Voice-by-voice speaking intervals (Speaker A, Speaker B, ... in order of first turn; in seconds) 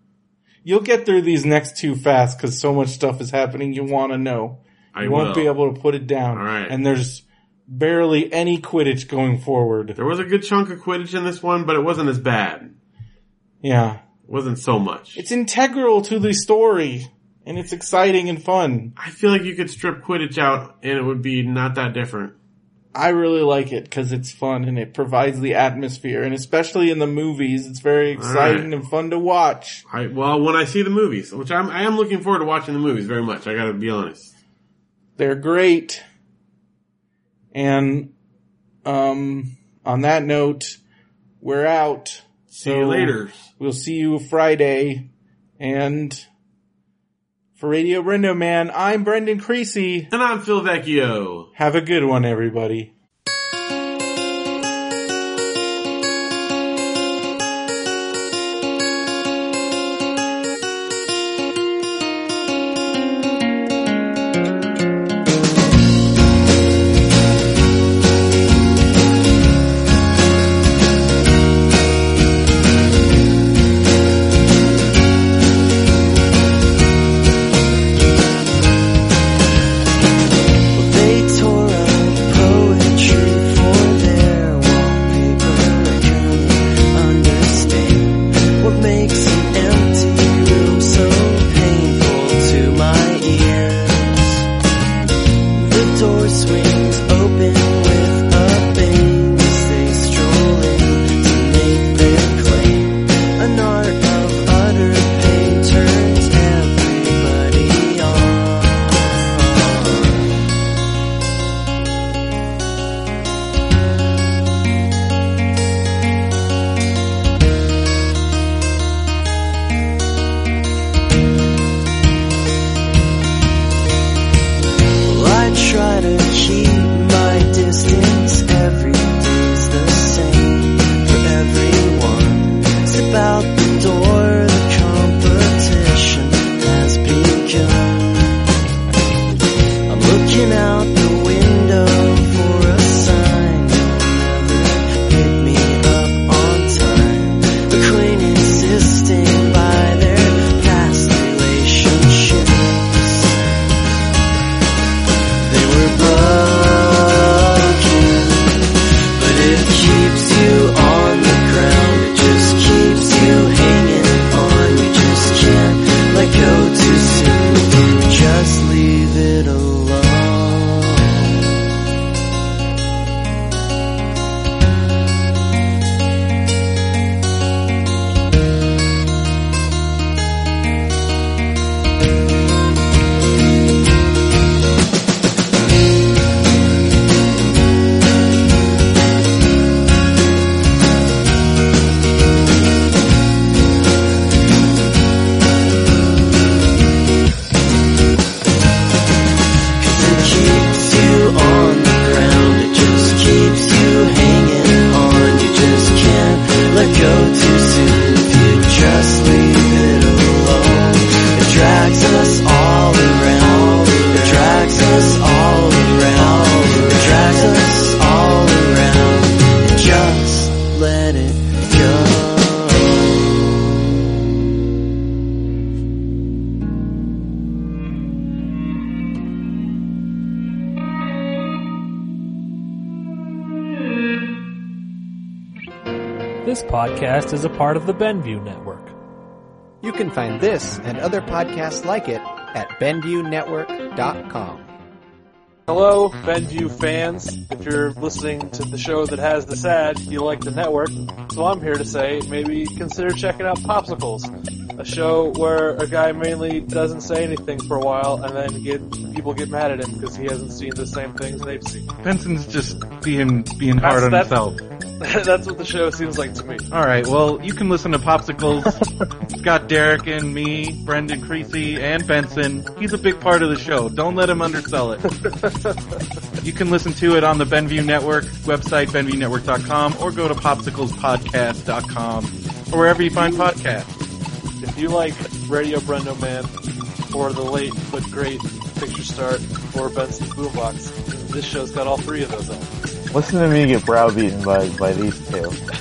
Speaker A: 0.7-10.0, 13.6-14.0, 15.2-18.9, 22.9-29.8, 35.2-36.0, 37.5-38.1, 38.9-40.8, 41.4-46.3, 47.6-50.1, 51.6-52.9, 262.0-264.6, 266.7-268.8, 269.4-275.0, 276.4-283.9
Speaker B: 4.9-5.5, 6.3-6.8, 10.0-12.8, 14.3-15.2, 19.0-22.4, 28.1-28.7, 29.9-34.3, 42.6-43.5, 50.1-51.5
Speaker C: 80.7-94.5, 95.5-110.3, 125.1-138.4, 139.9-153.3, 155.4-171.3, 199.8-223.4
Speaker D: 236.4-238.9
Speaker E: 239.8-244.7
Speaker F: 245.7-261.9, 263.8-264.4, 265.0-266.6, 275.2-275.7, 283.1-283.5, 284.6-286.6, 287.1-293.0
Speaker G: 293.1-295.6